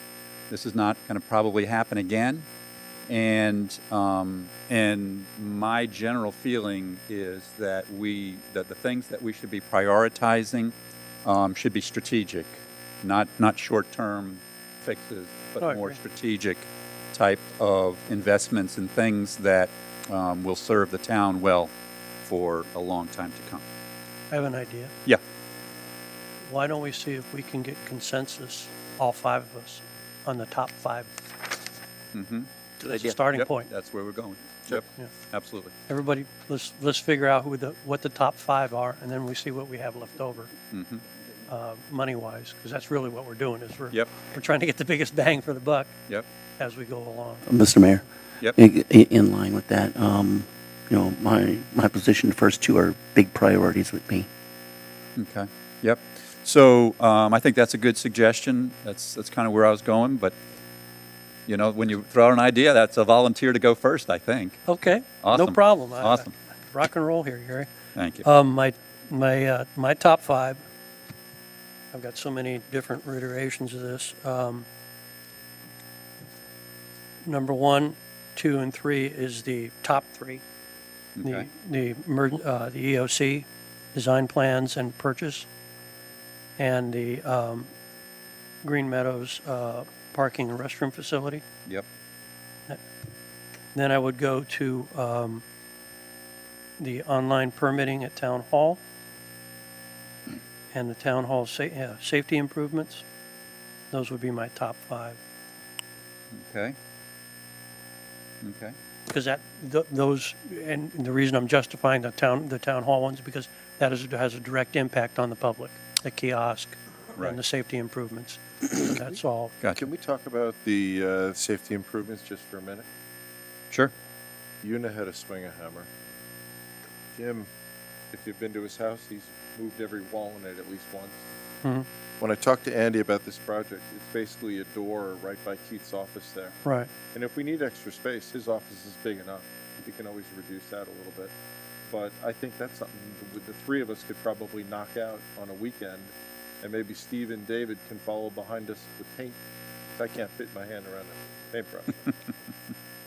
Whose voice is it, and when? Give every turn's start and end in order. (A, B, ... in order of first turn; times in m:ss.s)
0:00.5-0:02.5 A
0:03.1-0:10.7 A
0:11.2-0:21.7 A
0:15.6-0:16.0 B
0:22.2-0:23.6 A
0:24.3-0:24.9 B
0:26.4-0:31.1 B
0:32.1-0:32.5 A
0:32.8-0:33.7 B
0:33.3-0:35.7 A
0:35.9-0:40.5 B
0:40.7-0:41.0 A
0:41.5-0:46.0 B
0:46.6-0:47.5 B
0:47.4-0:54.3 C
0:55.2-1:00.4 A
1:01.5-1:04.6 A
1:04.7-1:07.7 B
1:05.2-1:06.3 A
1:07.9-1:08.2 A
1:08.2-1:10.6 B
1:11.9-1:14.7 B
1:17.2-1:20.4 B
1:21.2-1:21.5 A
1:21.2-1:25.4 B
1:26.6-1:27.7 B
1:28.6-1:31.4 B
1:33.7-1:35.4 B
1:36.8-1:38.8 B
1:40.7-1:43.0 B
1:43.9-1:45.2 B
1:46.3-1:46.8 A
1:48.4-1:48.8 A
1:49.1-1:59.6 B
1:59.8-2:02.8 D
2:04.6-2:05.9 D
2:07.2-2:07.5 D
2:08.1-2:11.2 D
2:12.2-2:16.6 D
2:17.1-2:21.3 D
2:21.9-2:26.1 D
2:26.6-2:29.4 D
2:29.9-2:32.1 D